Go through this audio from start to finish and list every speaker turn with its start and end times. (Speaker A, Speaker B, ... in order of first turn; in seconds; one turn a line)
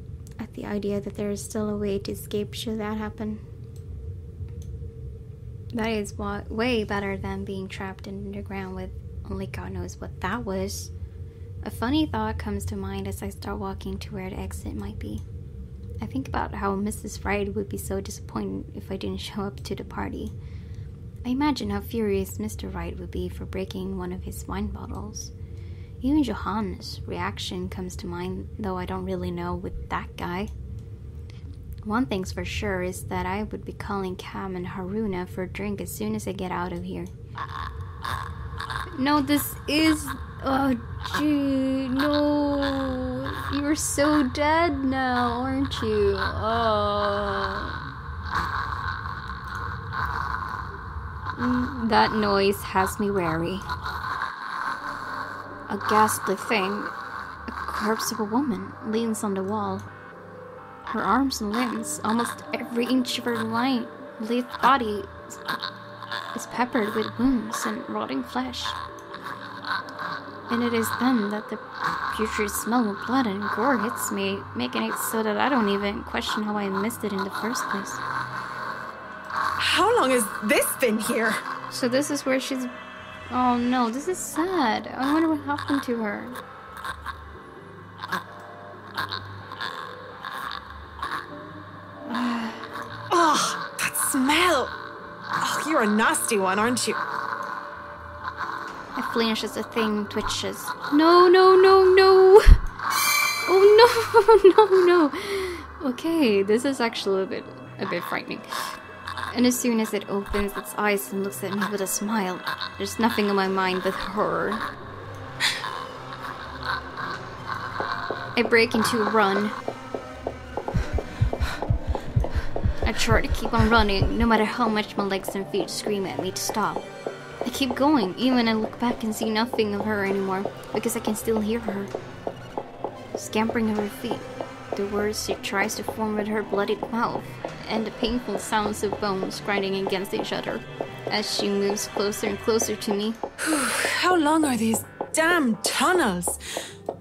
Speaker A: 0.4-3.4
Speaker A: 5.7-10.9
Speaker A: 11.6-15.2
Speaker A: 16.0-20.3
Speaker A: 21.2-25.3
Speaker A: 26.0-30.5
Speaker A: 31.8-37.1
Speaker A: 38.9-47.8
Speaker A: 51.3-53.6
Speaker A: 55.7-56.9
Speaker A: 57.5-59.9
Speaker A: 60.9-65.4
Speaker A: 66.3-68.8
Speaker A: 70.5-78.0
Speaker B: 79.6-81.4
Speaker A: 81.7-82.7
Speaker A: 83.3-86.4
Speaker A: 92.1-92.7
Speaker B: 93.1-94.7
Speaker B: 95.4-97.0
Speaker A: 99.0-102.6
Speaker A: 103.5-114.6
Speaker A: 118.3-119.5
Speaker A: 122.8-126.8
Speaker A: 127.4-131.9
Speaker A: 133.1-143.2
Speaker B: 143.4-146.4